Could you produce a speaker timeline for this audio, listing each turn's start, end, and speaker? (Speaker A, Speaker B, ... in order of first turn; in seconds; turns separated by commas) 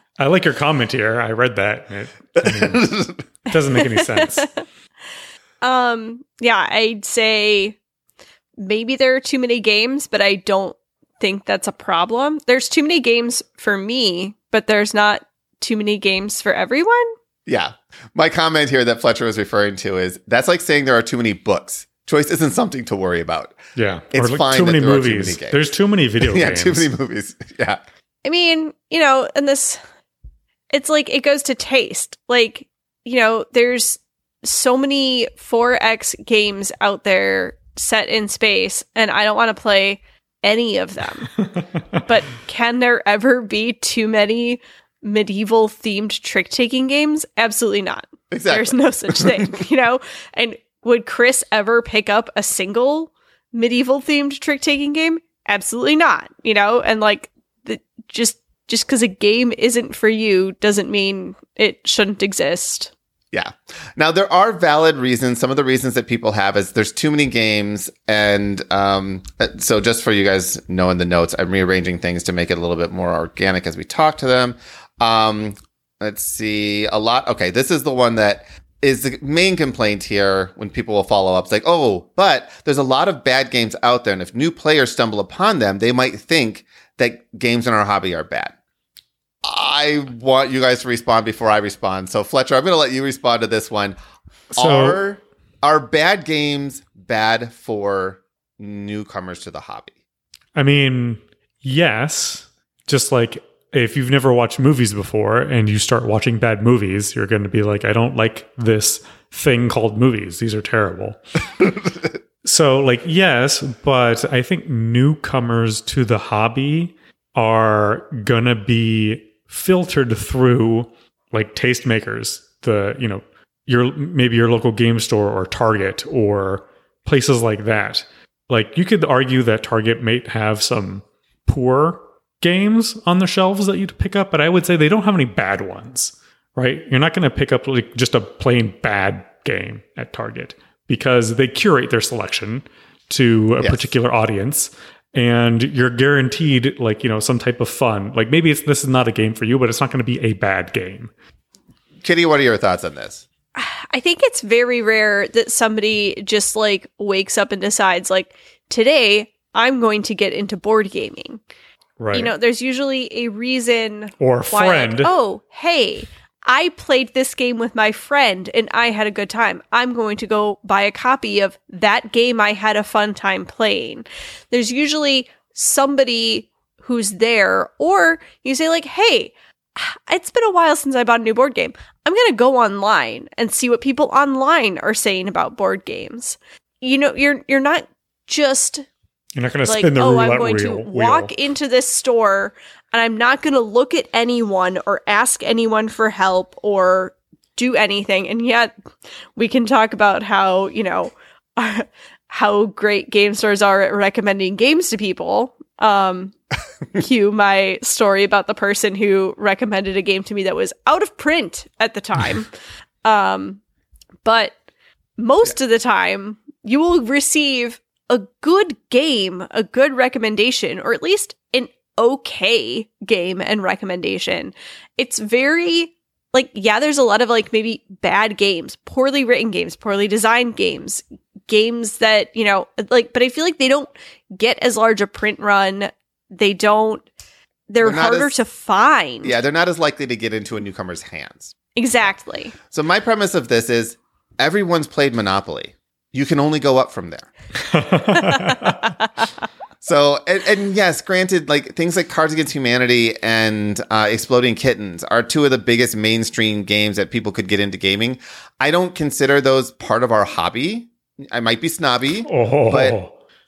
Speaker A: 0.2-4.5, Speaker B: 2.4-3.2, Speaker C: 3.8-4.4, Speaker C: 5.6-7.8, Speaker C: 8.6-17.1, Speaker B: 17.4-23.6, Speaker A: 23.8-26.9, Speaker B: 24.1-27.8, Speaker C: 28.2-29.8, Speaker C: 30.7-41.3, Speaker C: 41.9-62.9, Speaker B: 48.3-49.6, Speaker B: 63.3-88.5, Speaker B: 89.4-94.0, Speaker A: 94.5-95.0, Speaker B: 94.5-100.0, Speaker A: 100.5-111.2, Speaker A: 112.4-151.1, Speaker B: 143.6-143.9, Speaker B: 152.0-153.2, Speaker C: 153.6-161.4, Speaker A: 162.0-162.3, Speaker C: 162.1-188.8, Speaker A: 164.2-165.1, Speaker A: 189.3-191.3, Speaker C: 189.7-198.7, Speaker C: 199.3-206.3, Speaker C: 206.9-212.5, Speaker C: 213.0-213.6, Speaker C: 214.2-214.5, Speaker C: 215.2-237.1, Speaker C: 237.7-239.3, Speaker B: 237.8-238.3, Speaker B: 239.2-241.6, Speaker C: 241.8-242.5, Speaker B: 242.7-247.3, Speaker A: 247.7-248.8, Speaker C: 248.3-248.6, Speaker B: 249.8-262.9, Speaker A: 262.2-263.1